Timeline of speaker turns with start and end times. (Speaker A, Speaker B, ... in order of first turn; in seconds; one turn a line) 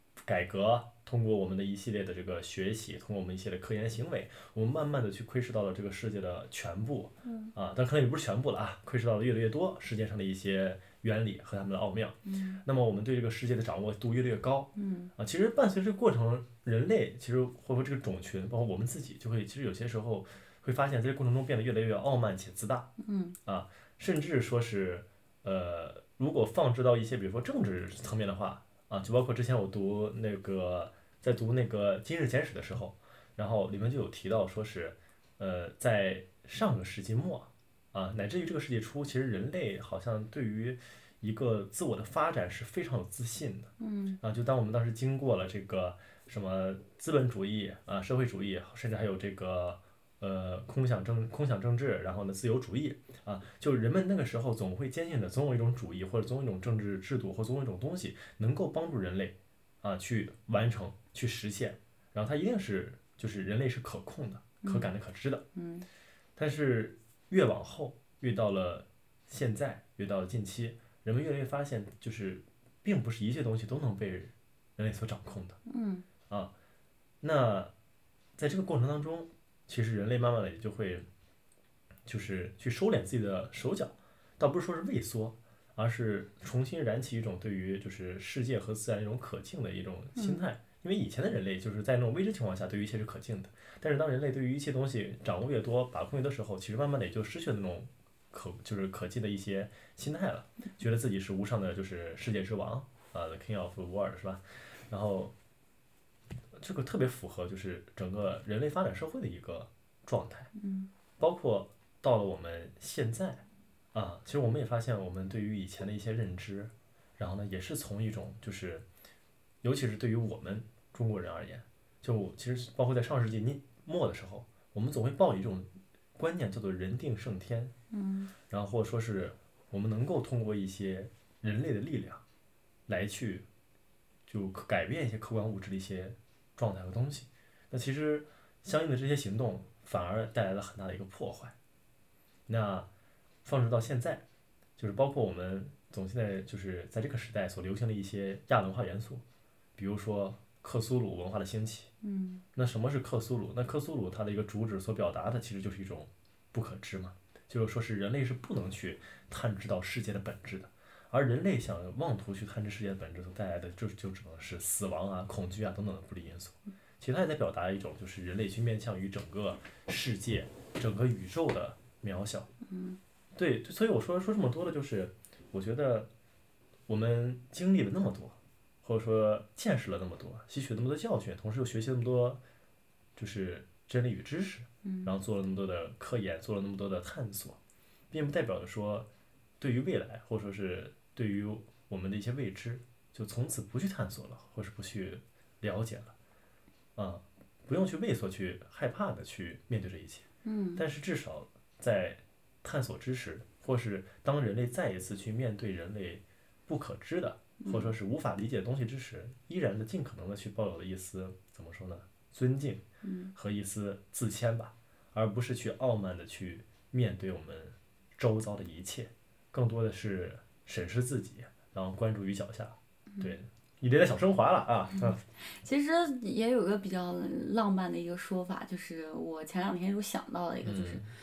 Speaker A: 0.3-22.9
Speaker B: 7.2-7.5
Speaker B: 12.2-12.6
Speaker B: 14.8-15.1
Speaker B: 23.0-23.4
Speaker A: 23.5-65.5
Speaker B: 43.8-44.2
Speaker B: 64.6-64.9
Speaker B: 65.5-65.9
Speaker A: 66.4-75.6
Speaker B: 75.7-76.1
Speaker A: 77.2-77.7
Speaker A: 78.4-81.1
Speaker A: 82.1-105.3
Speaker B: 90.2-90.5
Speaker A: 106.5-110.5
Speaker B: 110.5-110.9
Speaker A: 111.2-118.8
Speaker A: 119.6-127.7
Speaker B: 127.9-128.3
Speaker A: 128.5-132.2
Speaker A: 132.9-133.5
Speaker A: 134.3-141.5
Speaker A: 142.5-142.9
Speaker A: 143.4-144.2
Speaker A: 144.8-149.2
Speaker A: 149.8-151.9
Speaker B: 152.0-152.4
Speaker A: 152.6-172.5
Speaker B: 172.6-173.0
Speaker A: 173.3-176.1
Speaker A: 176.9-182.4
Speaker A: 183.2-187.6
Speaker B: 184.8-185.1
Speaker A: 188.1-189.1
Speaker A: 189.6-196.1
Speaker A: 197.0-212.8
Speaker B: 200.4-200.8
Speaker B: 207.6-207.9
Speaker B: 213.0-213.3
Speaker A: 213.3-225.2
Speaker B: 225.0-231.1
Speaker A: 230.6-231.1